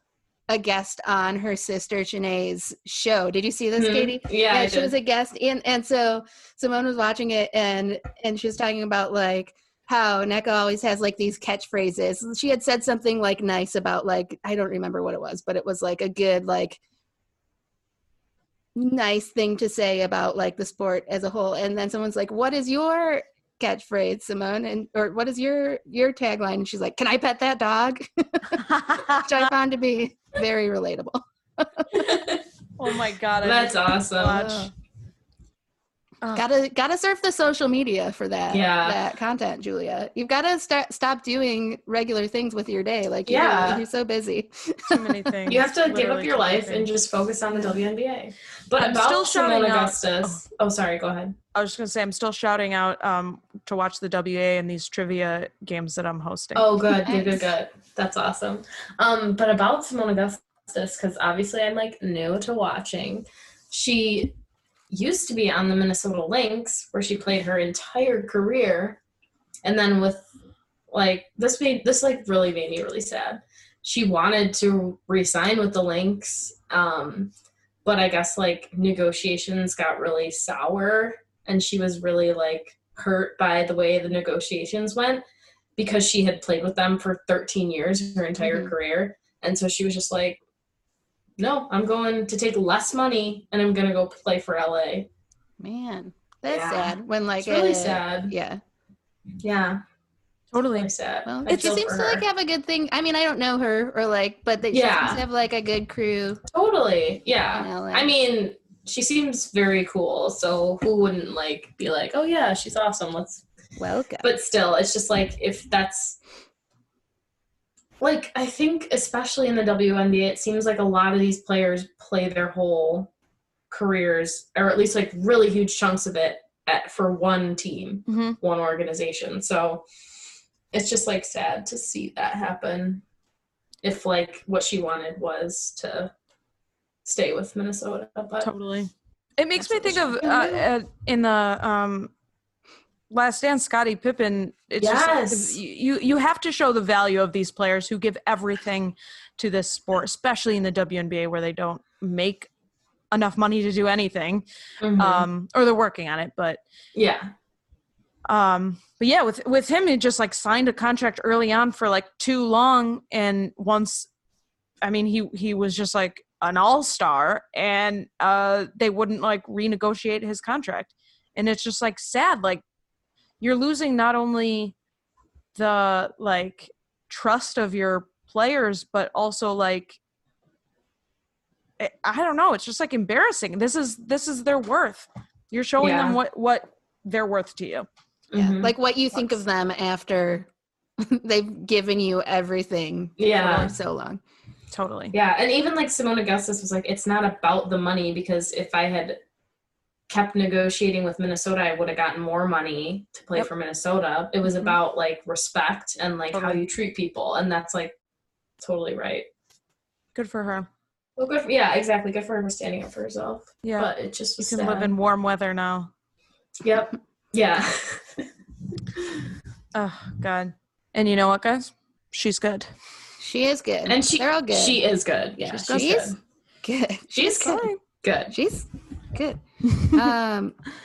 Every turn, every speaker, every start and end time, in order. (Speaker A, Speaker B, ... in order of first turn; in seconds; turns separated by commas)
Speaker A: 0.5-16.8, Speaker B: 3.8-4.9, Speaker A: 18.8-32.2, Speaker C: 28.6-29.4, Speaker B: 31.9-32.4, Speaker C: 32.8-34.7, Speaker B: 33.4-34.6, Speaker A: 34.3-34.7, Speaker A: 36.4-45.3, Speaker B: 38.5-39.0, Speaker B: 43.3-43.8, Speaker C: 44.9-46.9, Speaker B: 45.5-51.4, Speaker A: 47.5-47.8, Speaker C: 48.8-50.4, Speaker C: 51.5-56.7, Speaker B: 56.5-64.3, Speaker A: 57.1-57.5, Speaker B: 64.9-69.0, Speaker B: 69.6-70.2, Speaker B: 70.9-77.3, Speaker B: 77.8-85.2, Speaker B: 85.8-90.4, Speaker A: 88.4-88.7, Speaker B: 91.4-95.1, Speaker A: 95.6-98.6, Speaker B: 96.5-98.3, Speaker B: 99.4-99.8, Speaker C: 100.5-100.9, Speaker B: 100.7-102.2, Speaker A: 101.3-106.4, Speaker C: 101.5-101.8, Speaker B: 104.7-105.2, Speaker B: 106.5-113.5, Speaker A: 107.5-108.1, Speaker A: 113.8-114.3, Speaker B: 114.2-116.2, Speaker B: 118.0-123.1, Speaker B: 123.7-129.8, Speaker C: 128.1-128.4, Speaker B: 130.7-133.0, Speaker B: 133.8-136.1, Speaker B: 137.1-138.5, Speaker C: 138.4-142.1, Speaker A: 139.6-140.6, Speaker C: 143.1-152.5, Speaker B: 144.8-145.6, Speaker C: 153.1-154.4, Speaker B: 154.8-155.3, Speaker C: 155.0-156.6, Speaker B: 156.9-157.3, Speaker C: 158.3-164.1, Speaker C: 164.8-172.6, Speaker C: 173.4-174.8, Speaker C: 175.6-180.0, Speaker C: 181.8-187.9, Speaker B: 185.8-186.2, Speaker B: 188.3-188.7, Speaker A: 188.3-194.2, Speaker B: 193.2-193.7, Speaker C: 194.7-195.1, Speaker B: 195.1-199.2, Speaker B: 200.1-207.9, Speaker C: 206.3-206.6, Speaker B: 208.6-209.3, Speaker C: 210.2-210.7, Speaker B: 211.2-214.9, Speaker C: 213.6-215.9, Speaker B: 216.6-218.2, Speaker C: 219.8-222.7, Speaker A: 223.2-224.8, Speaker B: 223.9-226.2, Speaker C: 225.4-226.1, Speaker A: 225.7-227.7, Speaker B: 227.1-228.3, Speaker C: 227.4-227.8, Speaker A: 228.3-230.6